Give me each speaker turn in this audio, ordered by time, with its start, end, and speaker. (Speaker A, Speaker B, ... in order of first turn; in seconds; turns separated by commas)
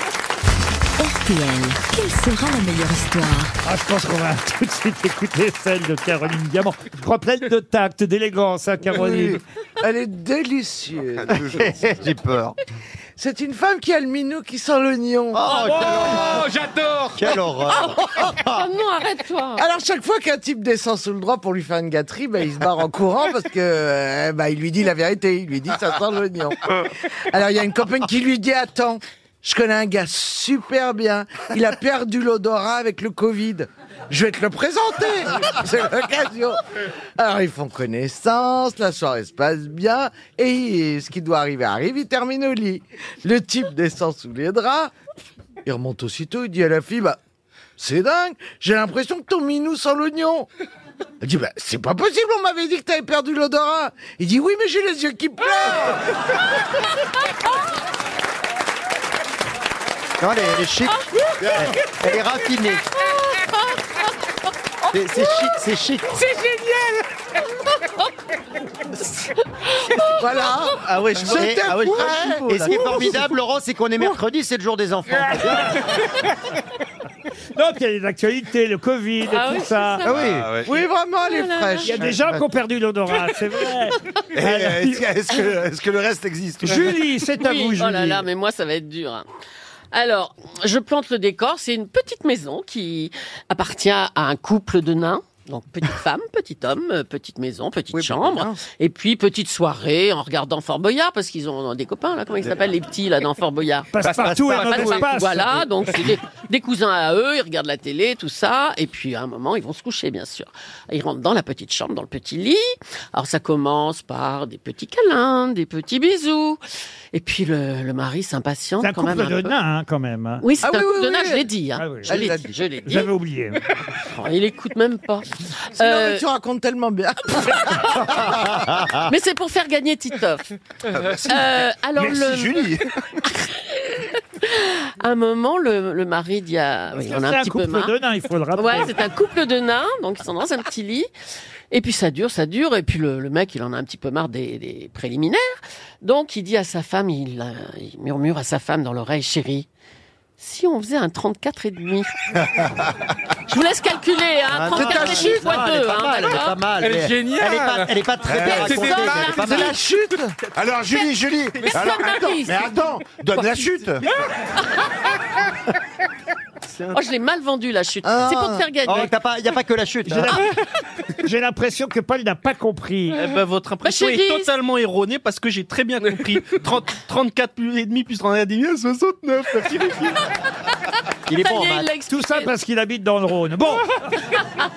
Speaker A: 1.0-3.5, Speaker B: 3.6-9.4, Speaker C: 9.1-11.6, Speaker D: 11.3-12.6, Speaker C: 13.2-15.5, Speaker D: 15.3-16.5, Speaker E: 15.5-17.3, Speaker D: 17.1-18.6, Speaker F: 18.4-19.6, Speaker C: 19.6-26.7, Speaker C: 27.3-36.6, Speaker C: 37.2-44.9, Speaker C: 45.6-47.2, Speaker C: 47.8-50.5, Speaker C: 51.2-56.0, Speaker D: 60.2-62.8, Speaker G: 61.4-61.8, Speaker D: 64.9-66.2, Speaker C: 70.2-72.7, Speaker H: 70.7-73.2, Speaker D: 71.3-75.8, Speaker B: 77.6-80.0, Speaker F: 79.3-80.3, Speaker D: 80.0-80.5, Speaker G: 80.0-80.7, Speaker C: 80.7-82.1, Speaker F: 81.2-82.0, Speaker B: 81.8-85.0, Speaker G: 84.3-86.9, Speaker B: 86.6-88.2, Speaker F: 87.4-89.2, Speaker F: 89.9-116.6, Speaker D: 97.9-98.6, Speaker B: 103.9-105.6, Speaker D: 104.1-105.0, Speaker F: 117.1-119.5, Speaker B: 118.8-120.5, Speaker F: 120.4-123.1, Speaker C: 120.6-121.5, Speaker B: 121.8-122.3, Speaker C: 122.1-122.5, Speaker B: 122.9-123.6, Speaker F: 124.0-126.2, Speaker C: 125.8-128.3, Speaker D: 128.4-129.0, Speaker F: 129.1-130.4, Speaker G: 130.9-132.9, Speaker F: 131.3-132.7, Speaker F: 133.4-137.9, Speaker B: 137.0-138.9, Speaker F: 138.6-141.1, Speaker F: 141.7-149.7, Speaker F: 150.4-152.1, Speaker F: 153.5-156.6, Speaker D: 154.5-159.8, Speaker E: 156.8-157.9, Speaker G: 158.2-158.9, Speaker E: 158.5-159.3, Speaker F: 159.2-159.6, Speaker C: 159.3-160.3, Speaker G: 160.6-164.0, Speaker F: 161.7-162.7, Speaker H: 166.8-167.0, Speaker F: 166.9-169.1, Speaker C: 168.1-168.7, Speaker D: 168.8-170.4, Speaker B: 170.1-170.6, Speaker B: 171.2-173.3, Speaker H: 173.1-180.2, Speaker F: 173.8-174.5, Speaker D: 181.3-181.9, Speaker F: 181.3-182.5, Speaker B: 182.1-183.9